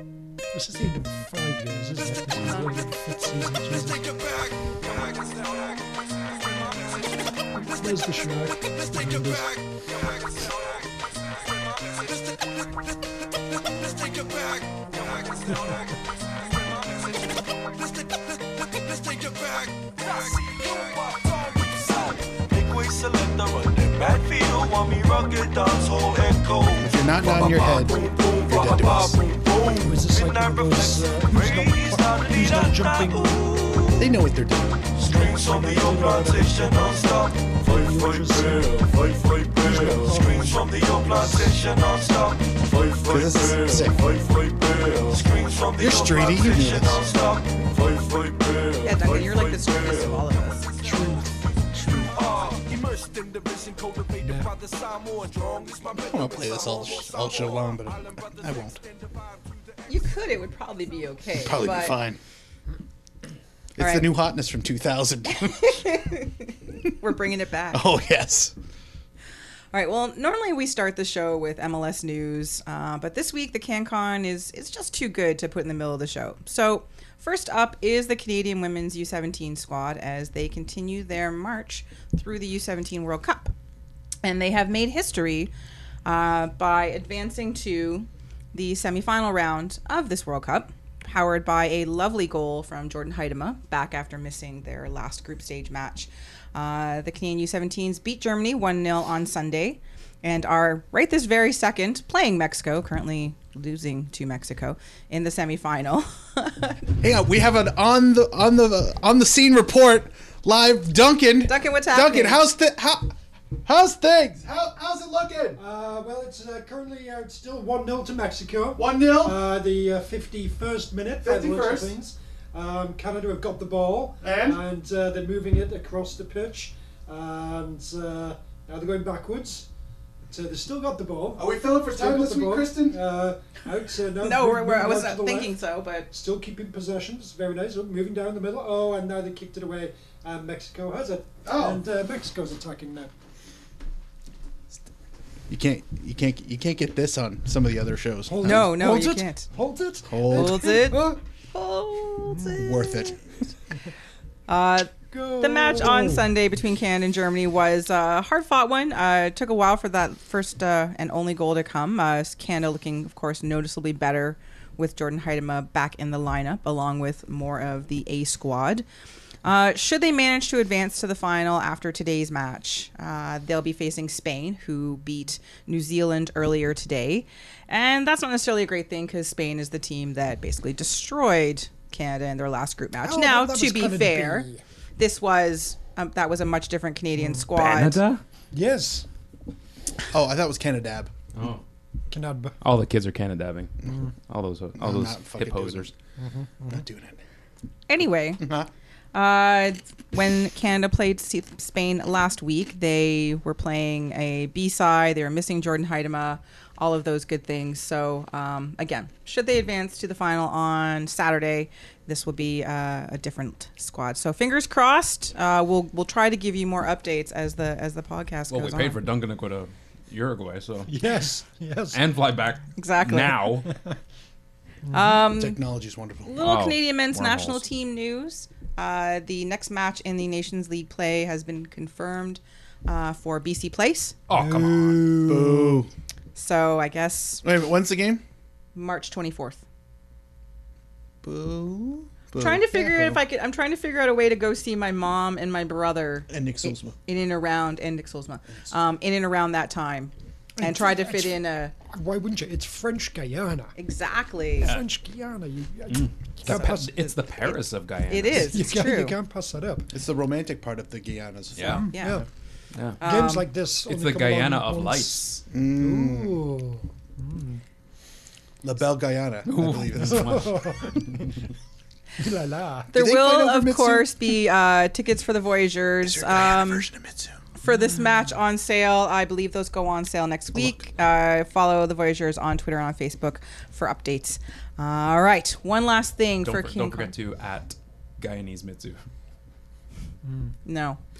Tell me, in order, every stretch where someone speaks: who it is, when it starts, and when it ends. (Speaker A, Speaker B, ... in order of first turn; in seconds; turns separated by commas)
Speaker A: 0.5-4.1, Speaker B: 3.9-7.6, Speaker A: 7.7-9.6, Speaker B: 8.7-10.7, Speaker B: 11.5-12.5, Speaker B: 13.8-34.1, Speaker C: 26.8-29.3, Speaker A: 29.7-33.4, Speaker C: 34.0-34.9, Speaker B: 35.0-60.2, Speaker A: 35.0-38.9, Speaker A: 39.5-42.1, Speaker C: 43.1-44.0, Speaker C: 45.8-47.1, Speaker D: 48.8-50.7, Speaker A: 50.8-51.3, Speaker C: 56.0-58.8, Speaker D: 59.9-62.0, Speaker C: 61.3-62.2, Speaker C: 63.8-65.8, Speaker D: 63.8-64.1, Speaker D: 65.3-67.9, Speaker C: 67.7-68.5, Speaker D: 69.7-83.5, Speaker D: 84.2-85.5, Speaker D: 86.0-106.8, Speaker C: 107.0-113.1, Speaker D: 111.5-112.4, Speaker C: 113.6-115.6, Speaker A: 115.6-129.7, Speaker C: 118.7-119.4, Speaker C: 121.2-121.9, Speaker C: 124.2-124.6, Speaker A: 130.3-135.5, Speaker C: 131.3-133.0, Speaker D: 134.2-136.1, Speaker A: 136.1-143.1, Speaker C: 141.4-141.8, Speaker C: 145.5-148.9, Speaker A: 148.3-151.2, Speaker D: 148.4-149.5, Speaker C: 150.1-150.8, Speaker D: 150.3-153.1, Speaker A: 152.3-152.6, Speaker C: 152.5-153.2, Speaker D: 154.5-168.8, Speaker A: 155.1-156.3, Speaker D: 169.4-184.5, Speaker A: 183.0-184.6, Speaker D: 185.0-188.0, Speaker A: 187.2-187.4, Speaker E: 187.5-188.2, Speaker A: 188.5-189.1, Speaker C: 190.1-191.1, Speaker E: 191.3-191.6, Speaker A: 192.1-192.5, Speaker E: 192.6-193.7, Speaker E: 194.3-195.9, Speaker C: 194.8-195.9, Speaker A: 196.2-196.8, Speaker C: 196.7-197.2, Speaker D: 197.9-198.4, Speaker C: 198.4-198.7, Speaker D: 199.1-219.0, Speaker E: 218.5-220.9, Speaker A: 220.9-222.0, Speaker E: 221.9-223.7, Speaker D: 222.8-223.5, Speaker A: 223.7-223.9, Speaker A: 224.8-225.1, Speaker D: 224.9-225.6, Speaker C: 225.3-226.4, Speaker D: 226.2-234.2, Speaker E: 226.4-227.6, Speaker E: 234.3-235.4, Speaker A: 234.3-235.8, Speaker C: 235.2-235.9, Speaker D: 236.3-237.4, Speaker C: 237.4-238.2, Speaker D: 238.7-239.6, Speaker C: 241.2-243.2, Speaker D: 242.4-251.7, Speaker C: 246.3-247.0, Speaker A: 250.6-251.4, Speaker A: 251.9-253.7, Speaker D: 253.8-254.7, Speaker A: 254.6-257.1, Speaker E: 254.6-254.9, Speaker E: 255.9-258.6, Speaker D: 256.5-256.9, Speaker D: 258.1-259.2, Speaker A: 258.3-259.9, Speaker C: 259.9-262.2, Speaker E: 261.6-261.9, Speaker A: 261.7-262.2, Speaker D: 261.9-262.2, Speaker E: 262.7-263.0, Speaker D: 263.0-263.5, Speaker A: 263.0-267.6, Speaker E: 263.8-265.4, Speaker C: 265.5-266.4, Speaker C: 268.6-270.4, Speaker E: 269.4-271.3, Speaker A: 269.8-271.3, Speaker A: 272.2-272.9, Speaker D: 272.9-276.9, Speaker C: 272.9-274.1, Speaker C: 276.0-277.4, Speaker D: 277.6-287.1, Speaker C: 280.5-280.8, Speaker E: 286.4-289.0, Speaker A: 290.2-290.5, Speaker D: 290.6-291.0